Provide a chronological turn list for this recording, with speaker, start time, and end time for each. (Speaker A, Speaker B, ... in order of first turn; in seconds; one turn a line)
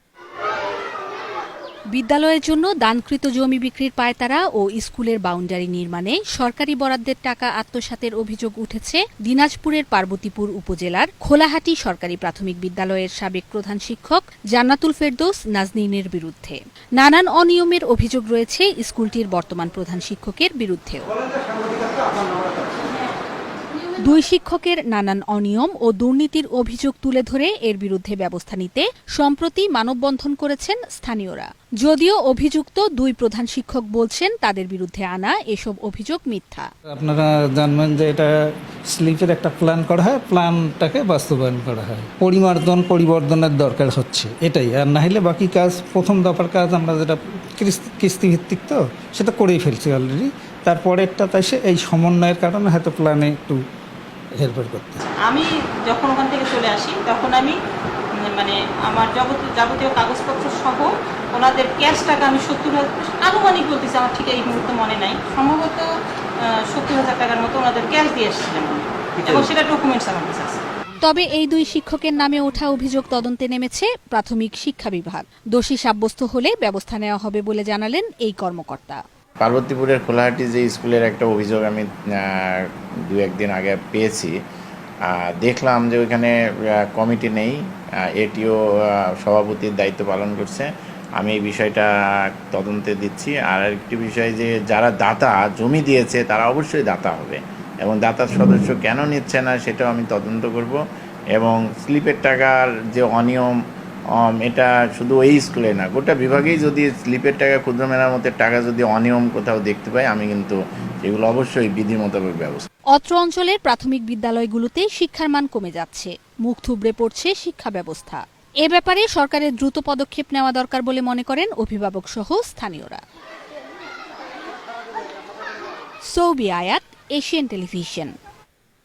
Speaker A: 1.9-21.1
Speaker A: 24.0-36.7
Speaker B: 36.9-38.3
Speaker B: 38.9-53.6
Speaker B: 54.3-55.0
Speaker C: 55.2-57.6
Speaker C: 58.2-65.9
Speaker C: 66.7-70.6
Speaker A: 71.0-79.0
Speaker D: 79.4-84.3
Speaker D: 85.1-87.6
Speaker D: 88.2-91.9
Speaker D: 92.5-100.8
Speaker D: 101.3-103.5
Speaker D: 104.2-112.7
Speaker A: 112.9-123.0
Speaker A: 126.1-128.1